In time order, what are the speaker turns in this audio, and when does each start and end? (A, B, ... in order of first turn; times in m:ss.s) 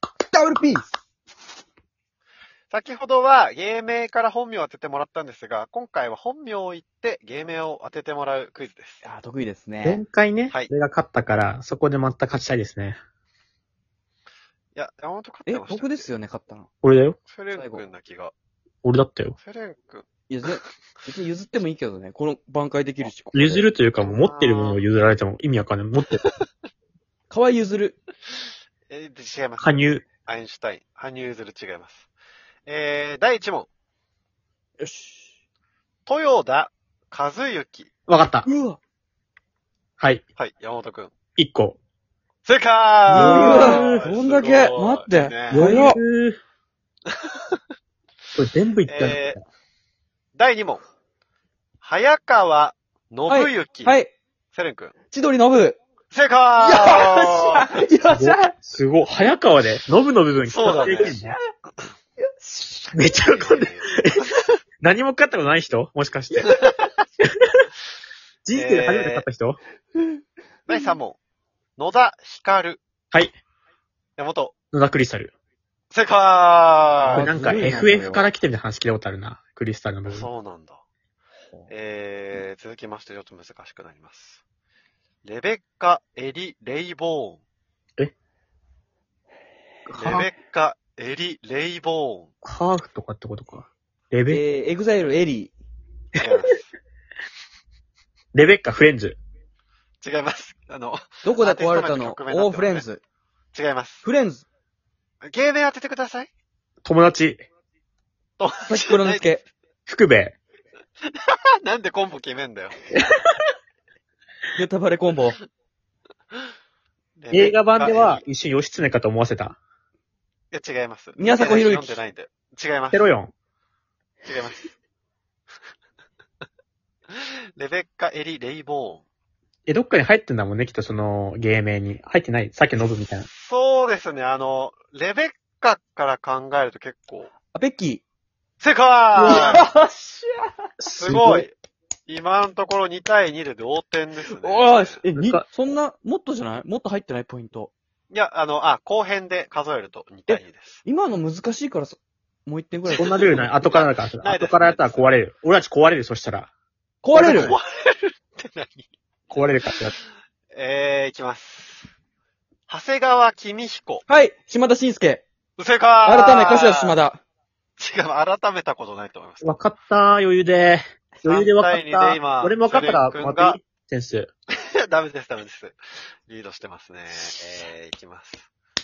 0:00.3-0:00.9 A
0:02.7-0:09.0 B
0:09.0-0:10.0 A
0:09.8-0:13.0 C
0:14.7-0:16.1 B
0:15.4-0:16.7 A
0:16.8-0:17.2 C
0:17.3-0:18.3 B
0:17.5-0:17.8 A
0:18.8-0:19.4 C
0:19.4-0:20.1 B
0:20.3-0:23.7 A
0:23.3-0:26.2 C
0:24.0-0:24.8 B
0:27.3-0:28.0 A
0:28.9-0:32.1 B
0:29.6-0:30.0 C
0:32.6-0:33.7 B
0:34.8-0:35.3 A
0:36.0-0:37.9 B
0:38.1-0:38.5 C
0:38.4-0:38.8 A
0:40.0-0:40.2 C
0:40.4-0:41.1 B
0:41.4-0:41.8 C
0:42.4-0:45.7 B
0:43.1-0:44.0 C
0:43.1-0:46.0 A
0:45.5-0:46.4 C
0:47.1-0:47.6 B
0:48.3-0:49.4 C
0:48.8-0:49.4 B
0:50.3-0:50.8 B
0:51.8-0:54.0 B
0:53.3-0:54.1 A
0:54.5-0:54.9 B
0:55.1-0:55.8 A
0:56.1-0:57.7 B
0:56.6-0:58.5 A
0:58.1-1:01.4 C
1:00.4-1:01.2 B
1:00.7-1:01.4 A
1:02.4-1:03.0 A
1:02.9-1:03.7 C
1:03.2-1:04.0 B
1:04.8-1:06.5 C
1:06.4-1:06.7 B
1:08.4-1:09.6 C
1:08.5-1:09.2 B
1:10.6-1:11.2 B
1:11.8-1:12.8 B
1:14.2-1:14.5 B
1:14.7-1:15.3 C
1:15.9-1:17.7 B
1:17.0-1:18.3 A
1:17.1-1:20.3 C
1:20.1-1:20.8 B
1:21.7-1:24.4 B
1:25.2-1:27.4 B
1:29.8-1:30.3 C
1:30.0-1:32.3 B
1:32.4-1:34.4 C
1:34.3-1:35.5 A
1:36.2-1:36.7 B
1:38.3-1:39.2 C
1:40.0-1:42.8 B
1:41.2-1:43.0 A
1:43.5-1:44.0 B
1:44.0-1:44.4 A
1:45.2-1:46.3 B
1:46.8-1:47.4 C
1:48.4-1:49.3 B
1:48.6-1:49.4 A
1:49.9-1:50.4 C
1:51.1-1:52.8 B
1:54.5-1:55.4 A
1:57.2-1:58.2 B
1:57.3-1:59.6 C
2:00.5-2:03.1 B
2:01.2-2:02.0 A
2:02.9-2:03.3 C
2:04.2-2:04.7 B
2:07.1-2:09.0 B
2:09.7-2:13.3 C
2:13.2-2:17.3 B
2:17.5-2:18.0 A
2:18.6-2:19.6 B
2:19.2-2:20.5 A
2:19.2-2:19.5 C
2:20.8-2:21.5 C
2:20.9-2:21.5 B
2:22.1-2:25.0 B
2:24.3-2:27.7 A
2:25.2-2:25.4 C
2:28.1-2:30.8 B
2:30.3-2:33.5 A
2:32.9-2:35.1 B
2:32.9-2:36.5 C
2:37.0-2:37.6 A
2:37.1-2:40.0 B
2:37.2-2:37.5 C
2:39.3-2:39.9 C
2:40.5-2:41.9 B
2:42.7-2:44.0 B
2:44.1-2:45.2 A
2:45.6-2:47.0 B
2:46.0-2:47.2 A
2:47.8-2:49.6 B
2:49.4-2:54.3 C
2:51.2-2:53.6 B
2:54.5-2:58.4 B